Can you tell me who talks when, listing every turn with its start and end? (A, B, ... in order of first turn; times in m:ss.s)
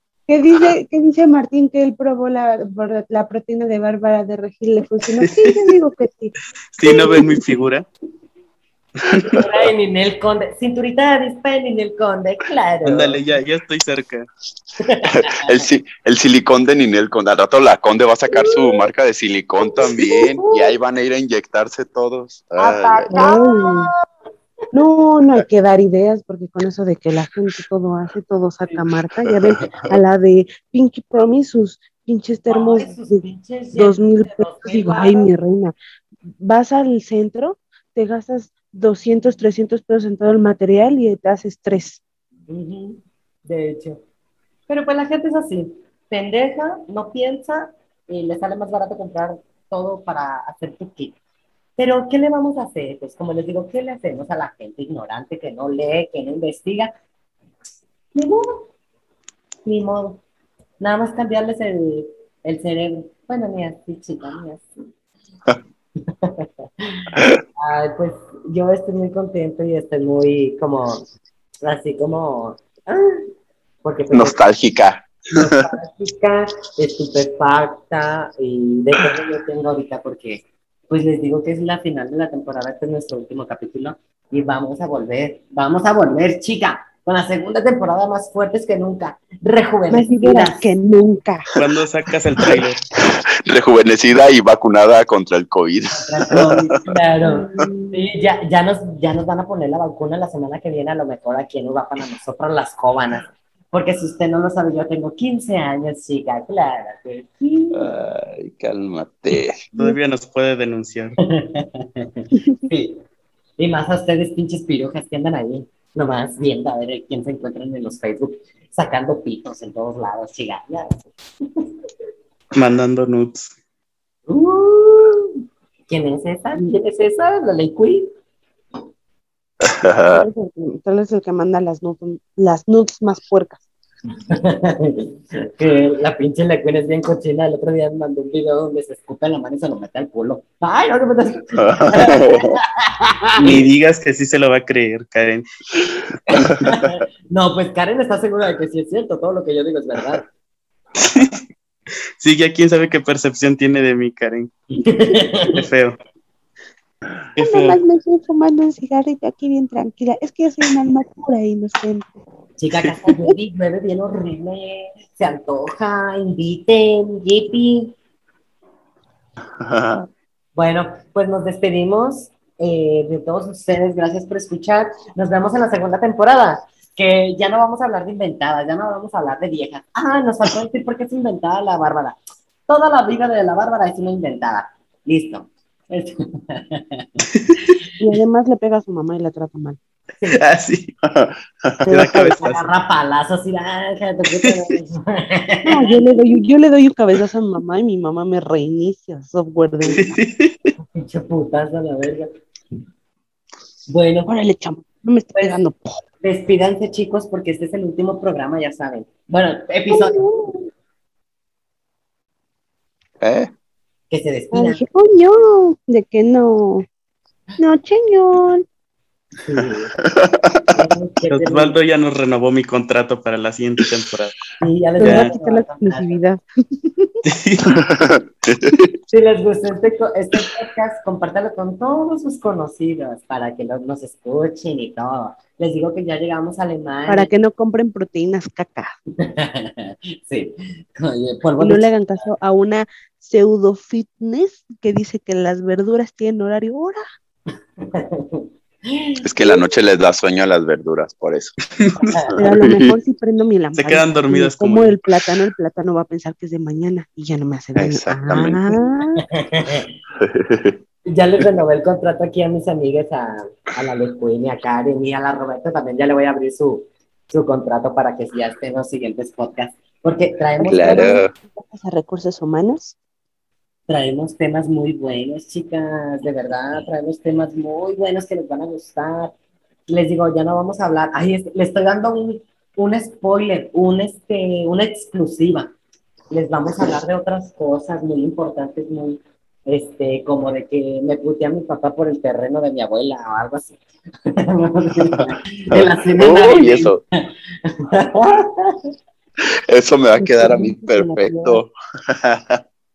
0:00.3-0:07.4 A
0:06.7-0:07.8 B
0:09.0-0:09.5 B
0:09.4-0:13.2 C
0:12.8-0:14.3 B
0:14.8-0:15.6 C
0:15.1-0:23.3 D
0:18.3-0:18.8 C
0:19.6-0:20.8 C
0:22.6-0:24.0 C
0:23.1-0:23.9 A
0:24.7-0:33.2 A
0:32.5-0:35.3 C
0:33.7-0:35.8 A
0:36.4-0:42.0 A
0:42.5-0:44.0 C
0:44.7-0:51.2 C
0:51.8-0:56.9 C
0:58.1-0:58.7 C
0:59.6-1:00.2 C
1:00.8-1:04.7 C
1:06.0-1:11.0 C
1:11.6-1:13.3 C
1:13.8-1:14.4 C
1:14.1-1:15.7 D
1:15.3-1:30.7 C
1:29.9-1:31.5 A
1:31.6-1:32.8 B
1:33.1-1:36.8 D
1:35.9-1:47.9 C
1:37.2-1:38.1 A
1:47.7-1:49.6 D
1:49.7-1:51.2 B
1:51.2-1:53.0 C
1:52.4-1:52.6 A
1:53.6-2:01.7 C
2:02.5-2:03.5 B
2:04.3-2:05.4 C
2:05.9-2:08.1 C
2:09.6-2:10.3 D
2:10.1-2:13.6 A
2:14.3-2:23.7 C
2:21.6-2:22.5 D
2:23.4-2:25.4 B
2:26.3-2:30.2 C
2:26.4-2:27.0 D
2:31.1-2:31.4 B
2:32.2-2:34.5 B
2:34.7-2:35.6 C
2:35.5-2:36.0 B
2:37.4-2:37.8 B
2:37.4-2:42.1 A
2:42.6-2:47.9 C
2:49.6-2:50.1 D
2:50.5-3:02.2 C
3:02.7-3:07.8 C
3:07.3-3:07.7 B
3:08.0-3:09.8 A
3:10.3-3:10.9 B
3:11.0-3:12.4 D
3:11.8-3:12.6 B
3:12.4-3:16.1 C
3:15.6-3:20.2 A
3:19.9-3:20.7 B
3:20.9-3:22.3 C
3:23.9-3:24.3 C
3:24.2-3:26.0 A
3:26.2-3:30.2 C
3:29.9-3:30.7 A
3:33.2-3:33.5 D
3:34.1-3:34.8 C
3:34.5-3:36.8 A
3:37.6-3:38.6 A
3:39.4-3:39.9 C
3:39.6-3:40.7 D
3:40.7-3:41.8 C
3:41.3-3:44.4 B
3:44.6-3:46.2 C
3:45.0-3:47.2 A
3:45.0-3:45.3 B
3:47.2-3:47.8 B
3:47.7-3:48.9 D
3:49.1-3:57.3 C
3:57.1-3:59.0 A
3:59.2-4:02.3 C
4:01.6-4:07.0 A
4:07.8-4:09.2 C
4:09.2-4:11.6 D
4:11.8-4:12.1 B
4:12.0-4:12.3 C
4:12.3-4:12.9 D
4:12.4-4:19.2 A
4:13.7-4:15.2 B
4:17.8-4:18.6 D
4:19.2-4:19.9 C
4:20.2-4:20.8 D
4:21.1-4:31.2 C
4:30.6-4:32.9 A
4:30.6-4:31.3 D
4:33.9-4:39.3 C
4:39.9-4:45.7 C
4:46.3-4:53.8 C
4:54.3-4:58.9 C
4:55.7-4:57.0 D
4:59.7-5:02.6 D
5:00.2-5:01.6 A